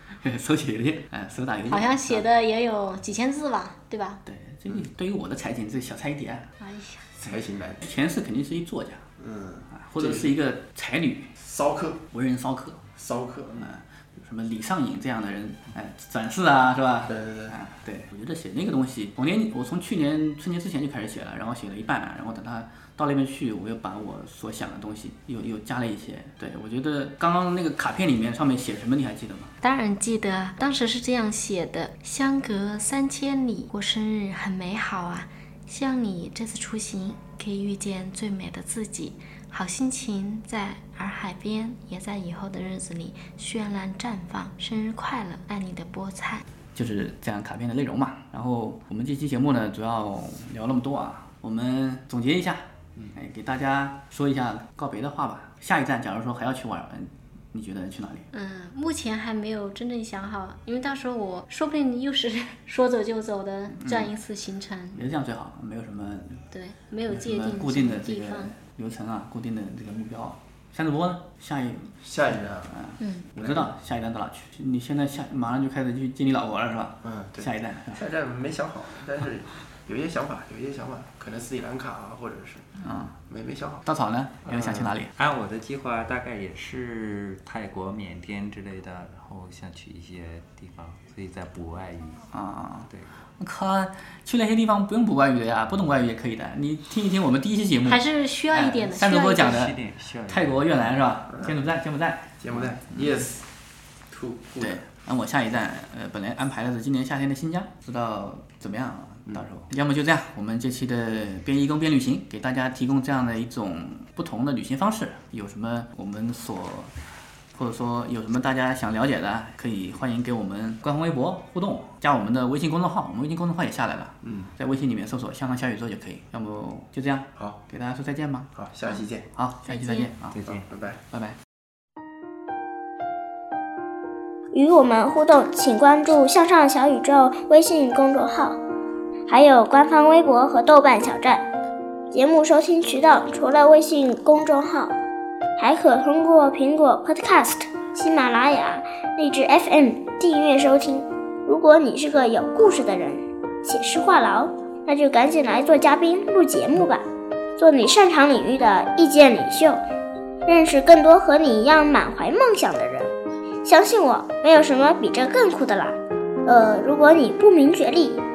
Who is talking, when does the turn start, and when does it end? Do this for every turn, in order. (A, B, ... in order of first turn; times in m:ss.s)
0:00.2-0:02.2 A
0:01.7-0:04.2 B
0:04.2-0:06.5 A
0:06.6-0:07.0 B
0:07.2-0:07.8 C
0:07.8-0:09.0 A
0:09.2-0:10.3 C
0:09.8-0:11.3 A
0:11.4-0:12.0 C
0:12.1-0:12.8 A
0:13.0-0:13.7 C
0:13.6-0:29.5 A
0:17.1-0:17.5 C
0:29.6-0:46.4 B
0:46.7-0:58.2 A
0:58.3-1:05.0 B
1:03.8-1:04.1 A
1:04.9-1:06.4 A
1:06.5-1:08.5 B
1:07.1-1:11.9 A
1:12.0-1:12.7 C
1:12.7-1:18.0 A
1:13.4-1:13.7 C
1:17.0-1:22.6 C
1:22.8-1:23.2 A
1:23.3-1:23.8 C
1:23.8-1:25.1 A
1:24.4-1:25.0 C
1:25.2-1:32.2 D
1:32.3-1:32.9 A
1:32.9-1:33.1 D
1:33.4-1:42.4 A
1:37.9-1:39.6 B
1:39.4-1:41.0 D
1:41.3-1:41.6 C
1:42.4-1:43.4 C
1:44.1-1:44.8 C
1:44.6-1:56.9 A
1:57.5-2:08.5 A
2:04.2-2:04.5 C
2:08.6-2:09.3 C
2:09.4-2:10.4 A
2:09.7-2:10.1 B
2:10.3-2:10.6 D
2:10.4-2:11.0 C
2:14.5-2:18.6 E
2:19.3-2:21.4 E
2:22.1-2:24.9 E
2:25.6-2:37.0 E
2:37.6-2:39.8 E
2:40.5-2:43.1 E
2:43.6-2:48.2 E